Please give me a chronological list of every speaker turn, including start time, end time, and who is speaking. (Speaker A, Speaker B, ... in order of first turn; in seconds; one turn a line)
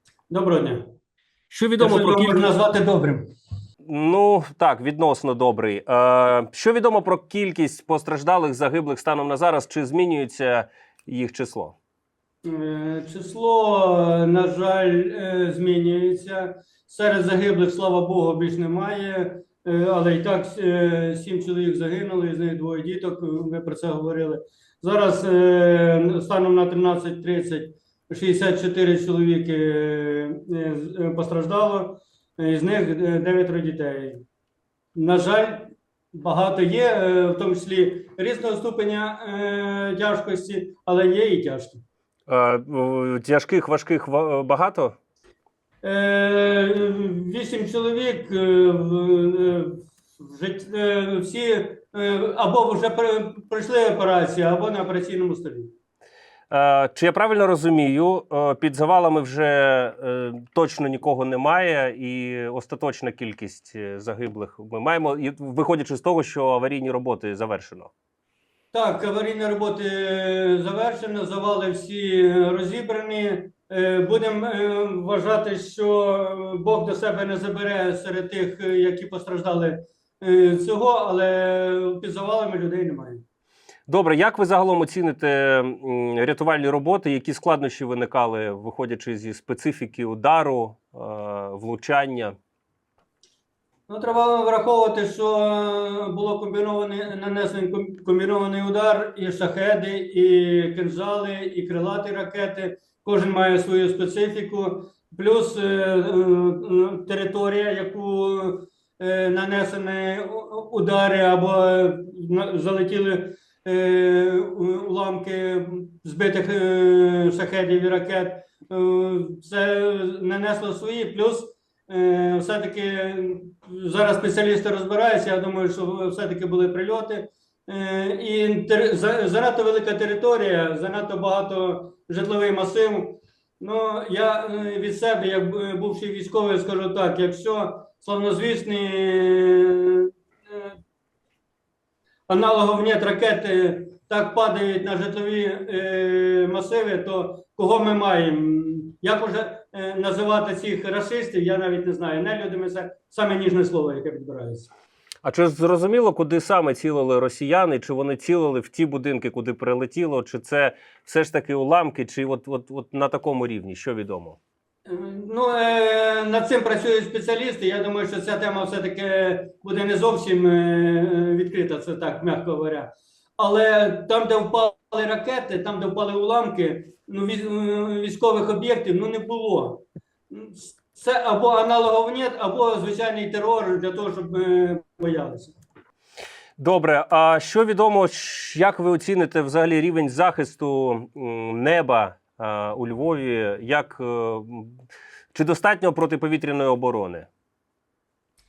Speaker A: 0.3-0.8
Speaker B: 1.5-2.5
Speaker A: 1.8-3.2
Speaker B: 3.9-11.8
Speaker A: 12.4-34.2
Speaker A: 34.9-41.8
Speaker B: 42.3-45.0
Speaker A: 45.8-55.7
Speaker B: 56.5-67.9
Speaker A: 68.7-83.2
Speaker B: 83.9-92.3
Speaker A: 93.9-140.7
Speaker A: 142.3-154.7
Speaker B: 155.2-164.4
Speaker A: 164.8-185.6
Speaker B: 186.6-194.8
Speaker B: 195.3-197.3